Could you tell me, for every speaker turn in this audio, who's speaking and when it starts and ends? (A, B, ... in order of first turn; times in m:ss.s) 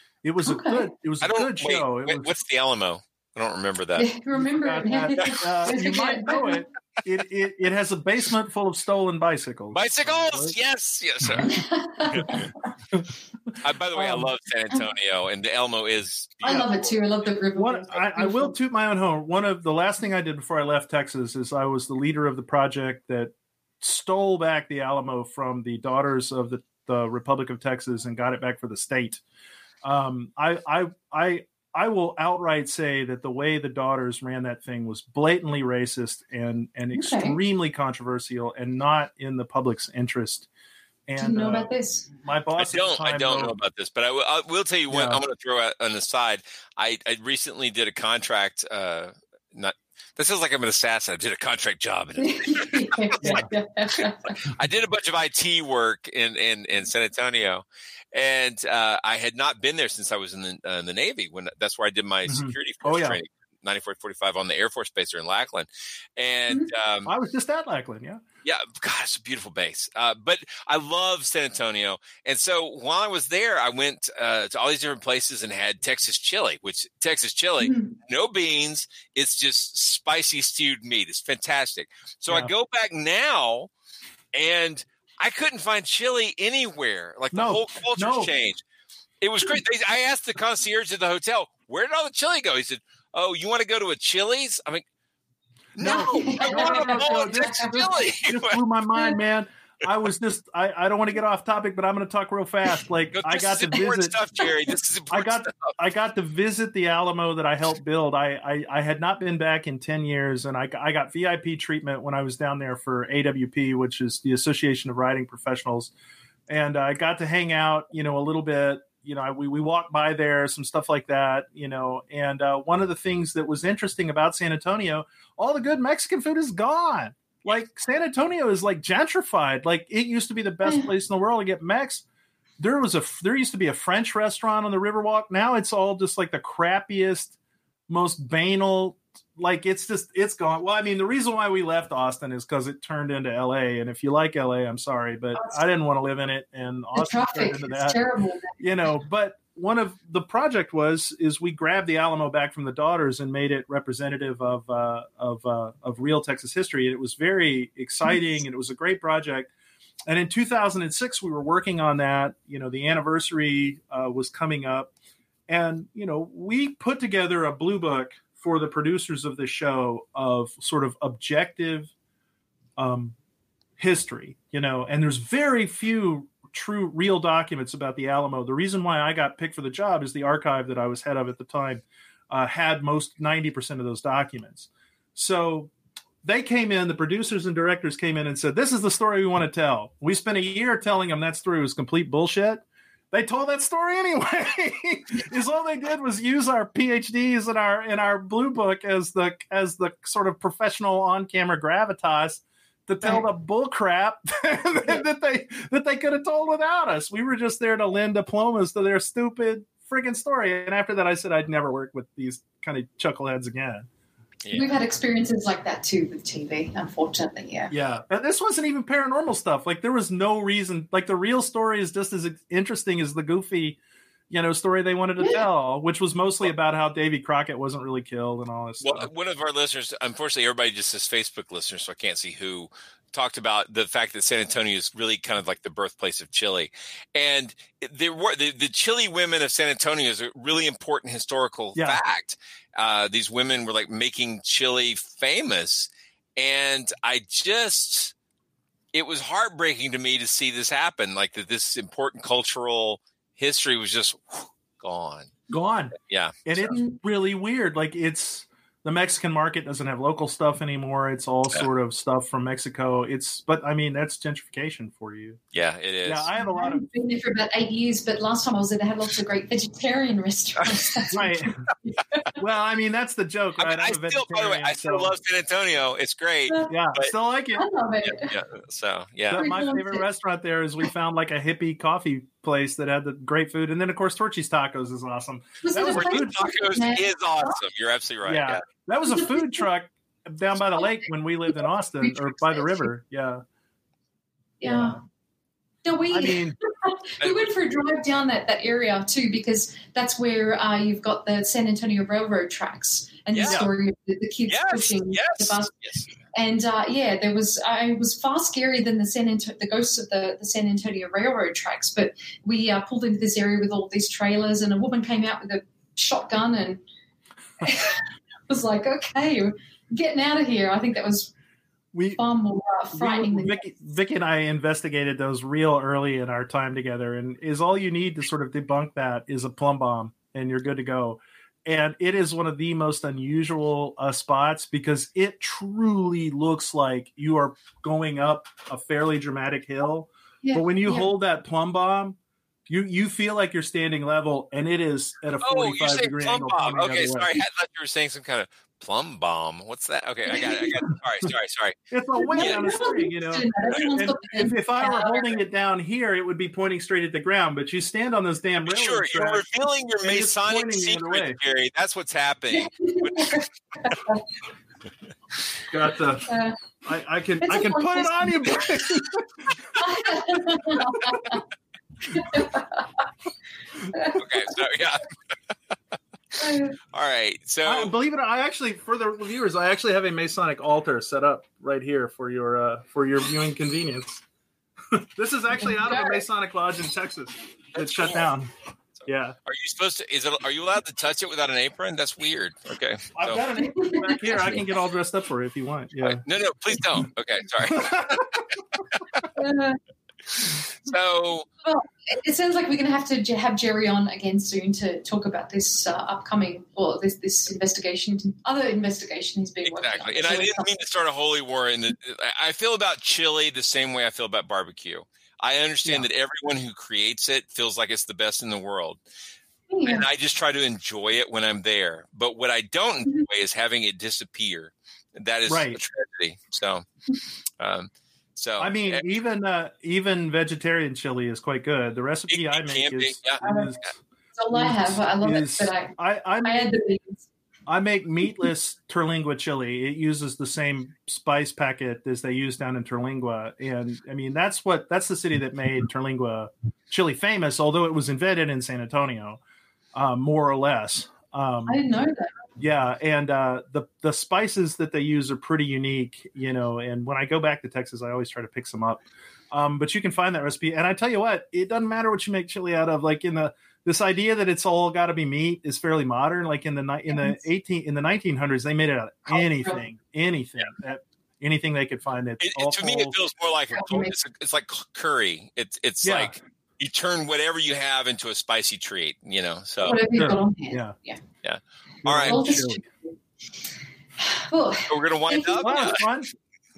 0:00.2-0:02.3 A
0:00.4-0:00.8 B
0:01.2-0:04.1 C
0:04.0-0:06.6 B
0:04.3-0:10.6 A
0:09.7-0:11.5 C
0:11.2-0:11.5 A
0:11.4-0:12.5 B
0:12.1-0:12.5 C
0:12.2-0:13.1 A
0:13.6-0:16.9 C
0:13.9-0:14.3 A
0:16.4-0:18.5 B
0:16.4-0:16.7 A
0:17.6-0:29.2 A
0:29.8-0:40.5 A
0:36.9-0:37.4 B
0:41.1-0:43.5 A
0:41.2-0:42.1 B
0:42.6-0:53.4 C
0:44.9-0:45.2 A
0:52.2-0:54.3 B
0:53.2-0:53.5 A
0:54.0-1:07.1 C
1:02.2-1:03.2 A
1:07.0-1:08.2 A
1:08.4-1:23.7 C
1:17.6-1:17.9 B
1:24.3-1:28.6 C
1:27.3-1:28.3 A
1:29.2-1:34.8 C
1:35.8-1:38.6 C
1:35.8-1:37.6 A
1:35.8-1:38.1 B
1:38.3-1:44.1 A
1:43.1-1:45.7 C
1:45.1-1:55.9 A
1:56.5-2:12.0 A
2:10.6-2:10.9 B
2:12.6-2:17.3 A
2:17.9-2:28.0 A
2:25.3-2:25.6 B
2:27.0-2:28.5 B
2:28.6-2:39.5 A
2:40.1-2:44.9 A
2:45.5-2:51.9 A
2:52.8-2:53.1 A
2:53.8-3:05.7 A
3:06.2-3:33.9 A
3:34.4-3:34.8 C
3:34.5-3:37.7 B
3:37.7-3:43.8 A
3:44.3-3:49.1 A
3:48.8-4:08.1 C
4:08.9-4:15.4 C
4:15.5-4:25.4 A
4:15.9-4:16.7 C
4:16.7-4:17.0 B
4:25.5-4:26.3 C
4:26.0-4:26.8 A
4:26.4-4:31.3 B
4:31.1-4:31.7 A
4:31.8-4:32.2 B
4:32.4-4:35.1 A
4:33.6-4:37.1 C
4:36.7-4:37.6 A
4:37.6-4:38.3 B
4:38.1-4:39.5 C
4:39.3-4:46.5 A
4:39.3-4:40.0 B
4:45.6-4:47.6 B
4:45.8-4:48.6 C
4:48.2-4:53.4 A
4:49.1-4:49.7 B
4:50.7-4:52.9 B
4:54.6-4:55.0 B
4:54.6-4:55.0 A
4:55.8-5:05.7 B
4:56.1-4:56.6 A
4:57.2-4:57.5 C
5:03.3-5:03.6 C
5:03.4-5:03.7 A
5:04.5-5:06.1 C
5:06.3-5:16.8 B
5:17.6-5:21.3 B
5:21.9-5:22.2 A
5:22.2-5:23.6 B
5:22.9-5:42.2 A
5:40.4-5:41.1 B
5:42.7-5:47.3 A
5:45.4-5:51.8 C
5:50.3-5:50.7 B
5:51.9-5:59.4 A
5:52.2-5:55.4 B
5:52.4-5:52.9 C
5:58.6-6:03.4 C
6:00.0-6:01.4 A
6:02.5-6:04.2 B
6:05.7-6:09.6 A
6:06.3-6:06.6 B
6:07.4-6:08.5 B
6:09.8-6:11.4 B
6:12.1-6:12.8 B
6:13.9-6:14.2 B
6:14.2-6:15.0 C
6:16.4-6:16.7 B
6:16.9-6:17.9 C
6:17.6-6:24.2 A
6:24.9-6:28.5 A
6:25.6-6:26.2 B
6:27.8-6:28.2 C
6:29.0-6:33.4 C
6:29.0-6:29.3 A
6:33.1-6:36.2 A
6:33.6-6:34.6 B
6:36.0-6:38.3 C
6:37.7-6:38.4 A
6:39.3-6:39.8 B
6:40.8-6:41.5 C
6:41.6-6:50.7 B
6:49.6-6:59.0 C
6:59.7-7:00.0 B
6:59.9-7:06.8 C
7:05.5-7:05.8 A
7:07.6-7:09.0 C
7:08.6-7:14.0 A
7:12.3-7:13.4 C
7:13.4-7:13.7 B
7:14.4-7:17.3 B
7:14.5-7:16.7 A
7:17.7-7:29.4 A
7:29.9-7:31.8 A
7:31.7-7:32.3 B
7:32.6-7:53.2 A
7:47.1-7:47.4 B
7:49.3-7:49.8 B
7:52.4-8:00.0 C
7:53.7-7:54.1 B
7:56.0-7:56.4 A
7:59.8-8:01.2 B
8:00.2-8:00.9 A
8:01.4-8:02.6 C
8:02.0-8:02.8 A
8:02.2-8:03.1 B
8:04.2-8:05.9 B
8:04.9-8:06.0 C
8:05.6-8:06.3 A